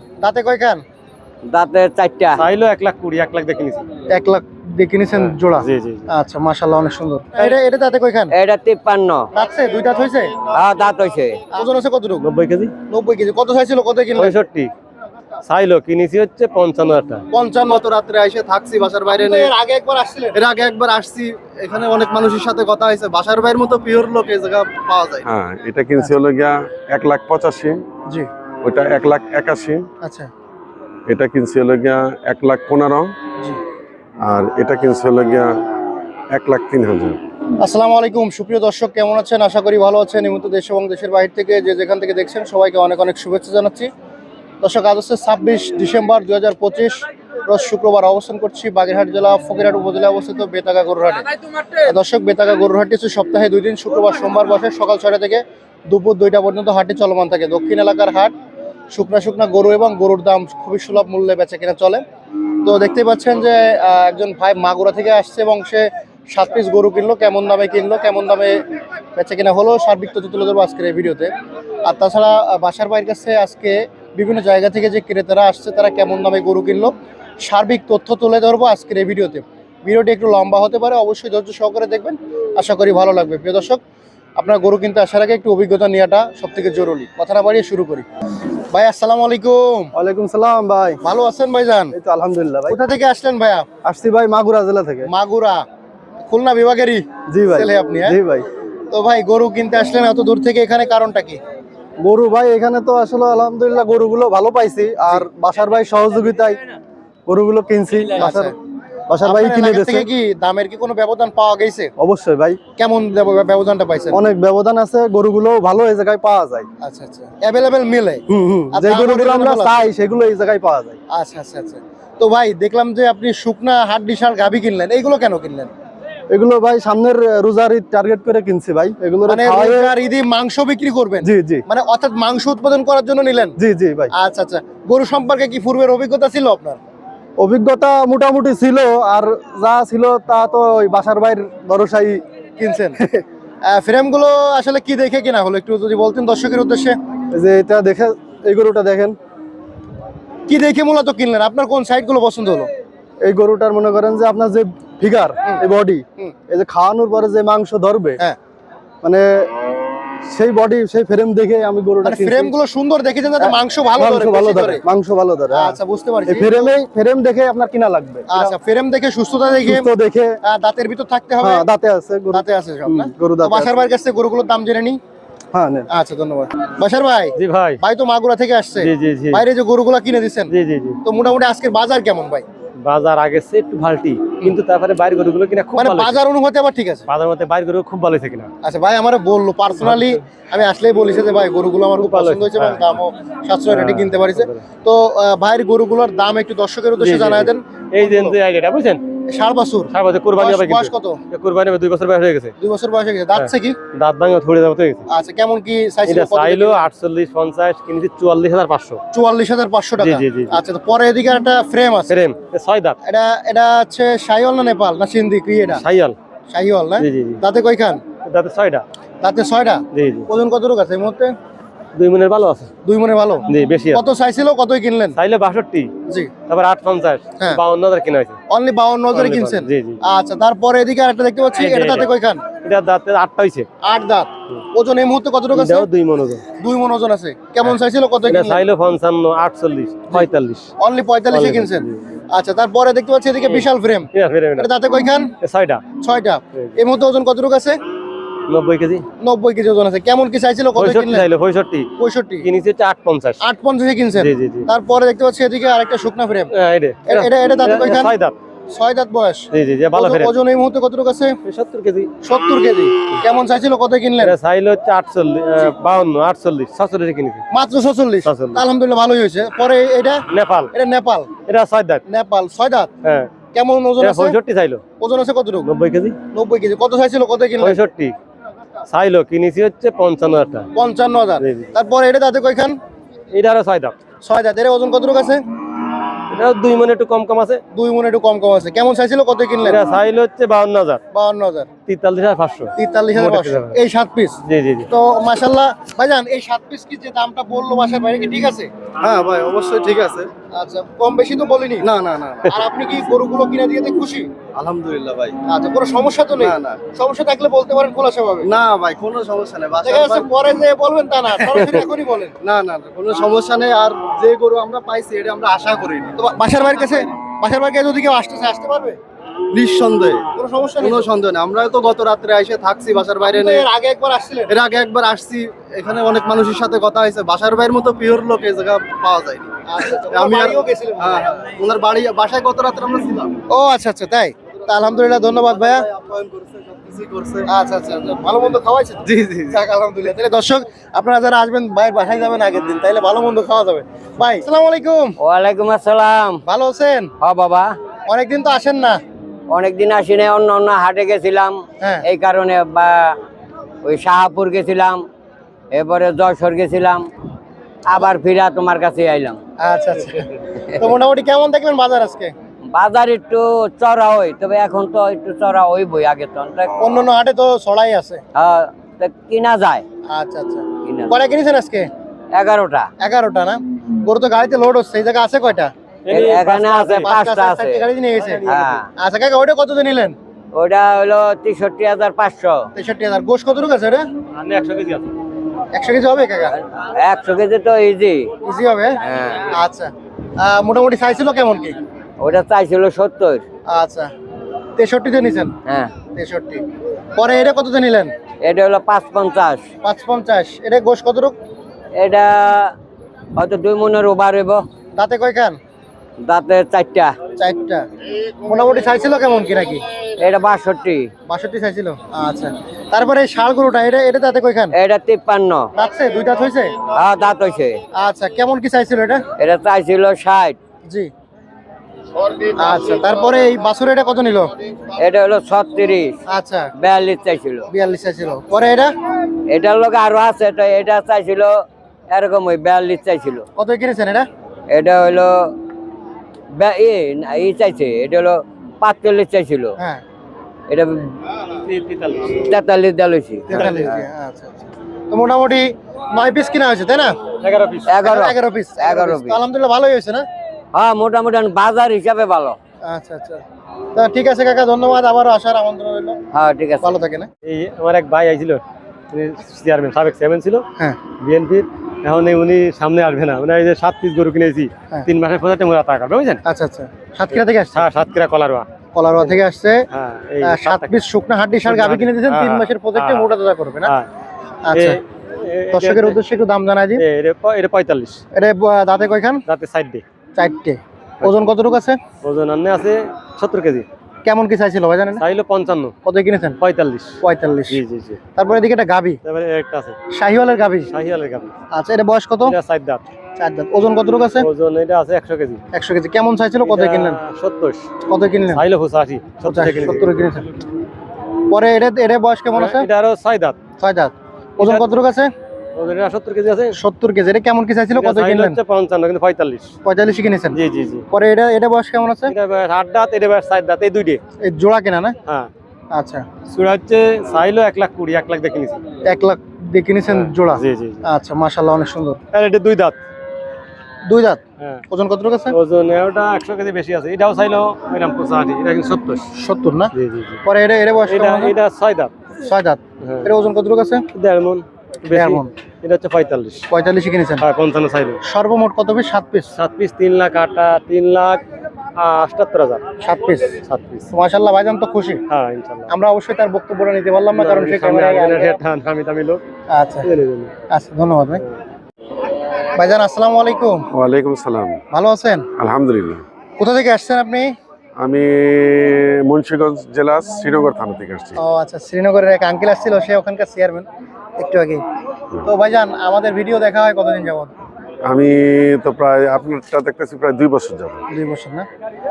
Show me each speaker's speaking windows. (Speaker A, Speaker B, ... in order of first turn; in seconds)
Speaker A: 0.2-0.8, 4.1-8.3, 9.3-10.3, 11.5-12.2, 12.9-14.3, 17.3-17.8, 19.1-20.4, 30.0-30.3, 37.6-43.9, 44.6-58.3, 58.9-62.0, 62.6-68.6, 69.2-71.3, 71.8-83.8, 84.4-88.0, 88.7-89.9, 91.0-91.9, 92.7-93.7, 95.1-95.6, 96.3-98.2, 98.9-101.4, 108.2-108.5, 109.2-111.9, 112.8-114.2, 116.8-119.8, 121.1-125.7, 129.2-133.5, 134.2-136.8, 142.6-143.0, 143.7-147.0, 150.5-152.7, 162.0-164.8, 165.5-166.7, 168.3-169.9, 170.4-171.7, 172.3-175.0, 175.9-180.5, 181.0-182.4, 185.8-187.1, 188.6-198.3, 199.3-201.2, 202.6-203.8, 205.1-206.8, 209.1-212.2, 213.0-215.8, 216.5-218.0, 219.2-221.3, 222.8-225.2, 228.5-232.4, 233.8-235.9, 236.6-238.6, 240.8-245.3, 246.0-247.8, 249.2-251.2, 252.0-252.5, 253.4-256.5, 257.1-258.1, 258.7-261.4, 262.2-264.4, 267.5-271.3, 272.1-272.9, 273.5-274.4, 275.0-275.7, 276.3-277.8, 280.8-282.8, 284.2-285.4, 287.7-289.8, 291.1-291.7, 292.8-294.4, 294.9-298.7, 300.5-301.9, 302.5-304.3, 305.5-308.5, 309.8-312.4, 316.2-319.0, 320.4-321.1, 323.3-324.5, 329.7-331.2, 333.5-335.9, 337.5-345.2, 346.4-347.1, 348.1-349.0, 359.6-362.3, 366.8-368.2, 370.1-371.9, 373.0-375.7, 377.0-380.1, 382.8-384.1, 385.7-386.6, 388.4-389.0, 389.5-391.8, 393.7-394.1, 394.8-395.5, 396.1-396.6, 397.2-398.1, 399.8-401.4, 404.9-405.6, 407.4-407.9, 408.4-409.8, 411.3-414.7, 415.8-416.8, 417.9-419.2, 422.5-424.5, 426.3-426.7, 427.7-428.9, 433.6-434.3, 443.5-447.1, 448.0-450.2, 452.8-453.4, 453.9-456.2, 456.8-457.3, 466.4-467.9, 468.9-469.9, 470.4-473.9, 474.6-475.0, 475.7-477.0, 478.4-479.4, 480.4-482.0, 484.2-485.2, 486.1-486.6, 487.2-487.8, 488.4-489.2, 490.1-490.9, 491.7-492.6, 493.4-494.5, 495.7-497.2, 498.1-498.6, 499.4-500.4, 501.5-502.9, 503.8-505.3, 506.8-508.6, 509.9-510.6, 511.1-512.4, 514.4-515.1, 515.9-516.2, 519.0-522.2, 524.1-525.5, 529.4-529.9, 530.5-531.5, 532.4-534.0, 535.1-535.5, 536.7-537.5, 538.2-539.5, 543.0-543.6, 544.1-545.2, 545.9-548.5, 549.7-550.1, 550.7-551.4, 552.8-553.9, 554.9-555.5, 556.6-557.5, 561.4-564.8, 565.5-567.5, 571.1-571.7
Speaker B: 1.5-2.4, 8.3-9.3, 10.5-11.4, 345.2-346.4, 347.2-347.8, 349.5-353.2, 353.8-355.0, 355.7-357.1, 357.9-359.4, 362.7-366.8, 368.4-369.8, 370.8-371.1, 372.3-372.9, 376.1-377.9, 378.4-378.9, 380.5-382.7, 386.5-388.3, 389.0-389.5, 392.2-393.4, 395.6-395.9, 398.4-399.6, 401.9-402.7, 403.4-404.6, 406.2-407.1, 410.2-411.1, 414.7-415.7, 416.9-417.8, 419.4-420.6, 424.9-426.1, 426.8-427.7, 429.5-433.4, 434.7-435.5, 436.5-439.8, 440.7-441.1, 442.3-443.9, 447.9-449.4, 450.7-452.6, 456.3-457.0
Speaker C: 2.4-3.9, 5.1-6.1, 12.2-12.7, 14.2-14.7, 15.4-17.2, 177.4-177.8, 178.8-179.4, 180.5-181.0, 182.8-186.2, 187.1-188.5, 189.8-190.2, 192.0-193.0, 193.7-194.6, 197.0-199.0, 199.9-202.5, 203.3-205.1, 206.1-209.0, 210.0-210.6, 212.1-213.0, 215.8-216.2, 217.0-217.4, 218.2-218.8, 219.9-220.3, 222.0-222.7, 223.5-224.0, 225.2-225.9, 226.5-228.4, 229.1-230.0, 231.5-232.1, 232.6-233.7, 235.5-236.5, 237.6-240.7, 241.3-242.0, 243.5-244.7, 245.4-245.8, 248.5-249.0, 250.8-251.9, 252.4-253.4, 254.1-254.7, 256.5-258.4, 259.5-260.3, 261.4-262.1, 264.2-267.4, 268.2-268.6, 270.3-270.7, 271.5-272.0, 273.0-273.3, 274.0-274.8, 275.6-276.2, 277.6-278.1, 278.9-280.7, 281.4-281.7, 283.3-283.9, 286.3-287.6, 289.6-291.0, 291.9-293.8, 294.4-294.9, 376.1-377.1, 384.4-385.1, 441.6-442.4, 443.6-443.9, 447.4-447.9, 457.4-466.4, 467.3-468.7, 469.9-470.9, 471.6-473.3, 474.7-476.2, 477.0-478.2, 479.5-480.0, 481.2-481.5, 482.2-483.9, 485.2-485.9, 486.6-487.1, 487.7-488.2, 489.2-490.0, 490.9-491.5, 492.4-493.0, 494.4-495.6, 496.6-497.9, 498.5-500.5, 502.6-503.6, 504.6-504.9, 505.8-506.8, 507.9-509.7, 510.5-511.1, 512.3-514.2, 516.5-518.8, 520.1-521.0, 522.3-523.0, 525.5-529.3, 529.9-530.4, 531.1-532.1, 533.0-533.3, 534.1-536.6, 537.4-538.2, 539.5-541.4, 542.0-542.8, 543.6-544.1, 545.3-545.9, 547.3-549.4, 550.0-550.5
Speaker D: 17.6-19.5, 20.3-25.2, 89.9-91.0, 91.9-92.8, 93.8-95.1, 97.3-98.5, 102.0-106.6, 107.3-108.5, 109.1-110.1, 112.0-112.6, 114.1-116.7, 118.3-121.0, 126.3-129.9, 131.2-131.6, 133.6-134.1, 137.4-142.2, 143.0-143.2, 147.3-149.2, 153.2-158.2, 159.0-159.5, 160.2-162.5, 163.4-165.8, 166.2-168.5, 169.6-170.4, 171.4-173.8, 175.5-175.9, 299.0-300.3, 301.8-302.6, 304.5-305.4, 306.4-306.9, 308.4-310.3, 312.4-316.2, 319.5-320.3, 320.8-323.6, 324.5-333.3, 335.1-337.5, 339.1-339.6
Speaker E: 25.2-27.8, 28.6-29.9, 31.1-33.1, 34.2-35.6, 36.3-37.2, 553.9-554.8, 555.5-556.2, 558.0-561.4, 568.0-571.0